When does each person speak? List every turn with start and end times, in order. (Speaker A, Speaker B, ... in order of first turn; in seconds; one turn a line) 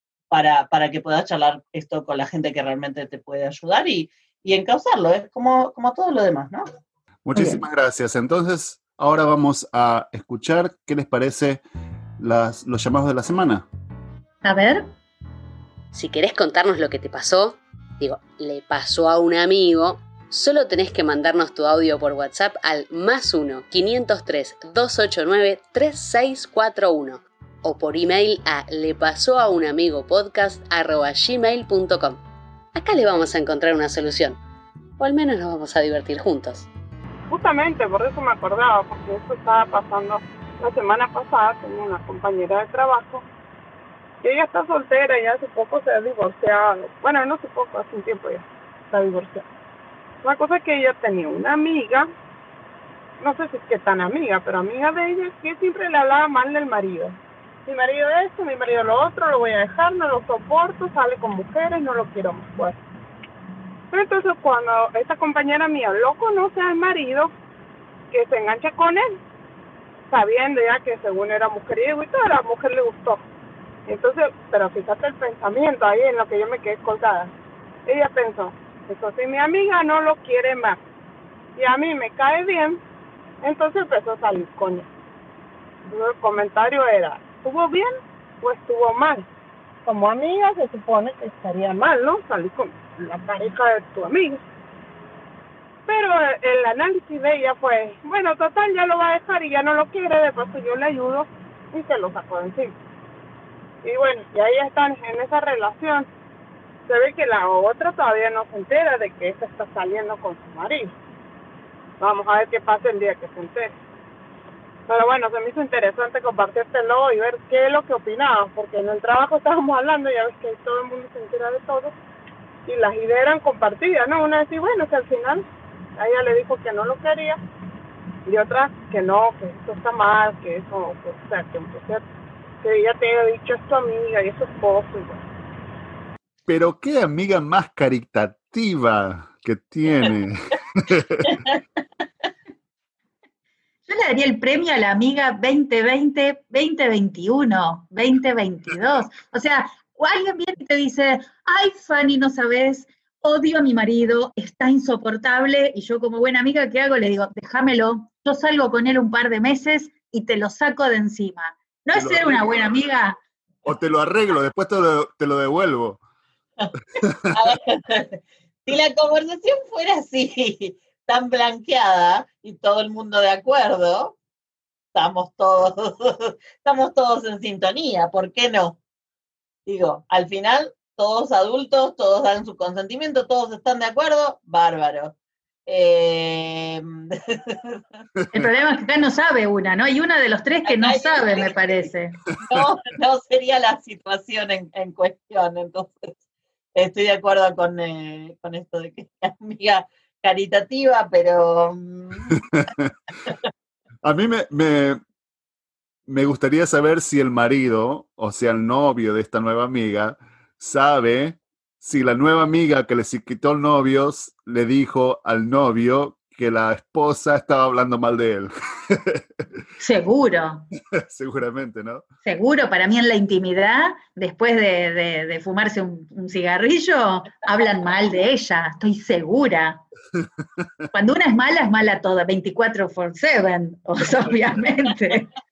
Speaker A: 0.3-6.7
Speaker B: 7.2-11.6
Speaker C: 7.3-7.6
Speaker B: 12.2-13.7
Speaker C: 14.4-14.9
Speaker D: 15.9-32.2
Speaker D: 32.8-34.4
Speaker D: 35.0-36.7
Speaker E: 37.3-43.2
Speaker E: 44.2-49.5
Speaker E: 50.2-52.1
Speaker E: 53.2-62.8
Speaker E: 63.9-67.3
Speaker E: 68.1-69.2
Speaker E: 70.1-73.2
Speaker E: 73.9-77.3
Speaker E: 77.9-80.8
Speaker E: 81.6-82.8
Speaker E: 83.4-84.9
Speaker E: 85.8-89.3
Speaker E: 89.8-94.4
Speaker E: 95.9-102.8
Speaker E: 103.8-106.1
Speaker E: 106.9-111.0
Speaker E: 112.0-113.8
Speaker E: 114.9-121.9
Speaker E: 122.7-125.5
Speaker E: 126.0-127.4
Speaker E: 128.3-132.0
Speaker E: 132.6-135.2
Speaker B: 136.5-141.4
Speaker C: 143.9-163.2
Speaker B: 161.9-162.4
Speaker B: 163.7-166.0
Speaker B: 167.0-167.3
Speaker A: 167.3-174.2
Speaker A: 174.9-178.8
Speaker A: 179.7-185.1
Speaker A: 185.7-187.8
Speaker C: 188.3-192.2
Speaker A: 190.7-191.8
Speaker A: 192.4-196.1
Speaker A: 196.8-202.3
Speaker B: 202.3-202.9
Speaker B: 204.0-205.0
Speaker B: 206.1-219.2
Speaker C: 219.8-220.7
Speaker B: 221.0-222.0
Speaker C: 222.2-229.8
Speaker C: 230.9-235.3